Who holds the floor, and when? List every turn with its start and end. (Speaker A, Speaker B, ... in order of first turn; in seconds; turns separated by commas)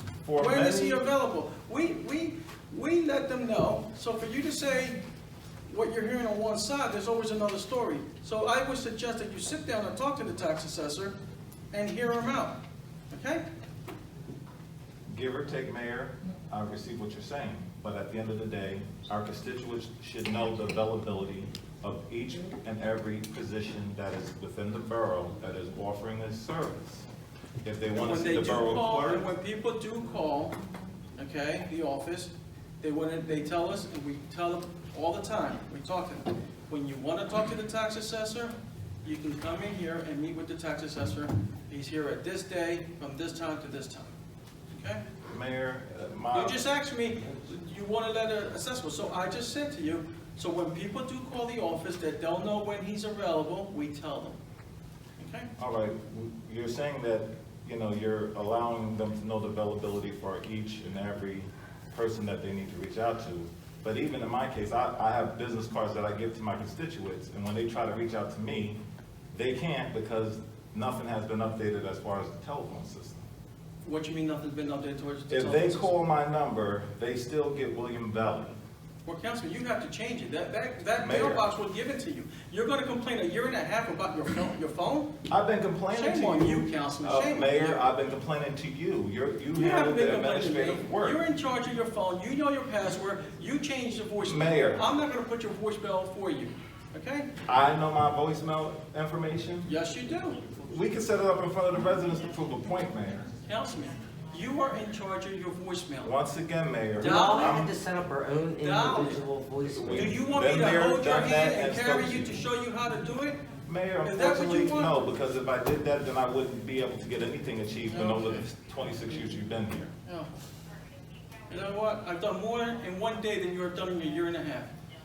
Speaker A: 0.2-1.1, Speaker B: 0.4-5.0, Speaker B: 5.7-11.2, Speaker B: 11.7-12.6, Speaker B: 13.1-13.4, Speaker A: 15.1-27.1, Speaker A: 27.6-29.3, Speaker B: 28.0-30.6, Speaker B: 31.2-44.1, Speaker B: 44.7-45.0, Speaker A: 45.3-46.7, Speaker B: 46.3-54.4, Speaker B: 55.2-55.5, Speaker A: 55.6-68.8, Speaker A: 69.3-73.3, Speaker B: 73.8-75.9, Speaker A: 75.3-78.6, Speaker B: 79.1-85.1, Speaker A: 81.0-81.4, Speaker A: 85.3-91.2, Speaker B: 85.9-87.8, Speaker B: 89.5-97.3, Speaker A: 94.2-94.8, Speaker A: 97.5-99.7, Speaker B: 99.7-100.6, Speaker A: 100.7-103.3, Speaker B: 103.5-106.1, Speaker A: 106.0-107.7, Speaker C: 107.0-110.2, Speaker B: 107.0-107.7, Speaker B: 108.6-109.2, Speaker A: 109.7-112.4, Speaker B: 109.9-113.4, Speaker A: 113.7-119.9, Speaker B: 114.0-115.0, Speaker B: 117.9-118.5, Speaker B: 121.5-124.7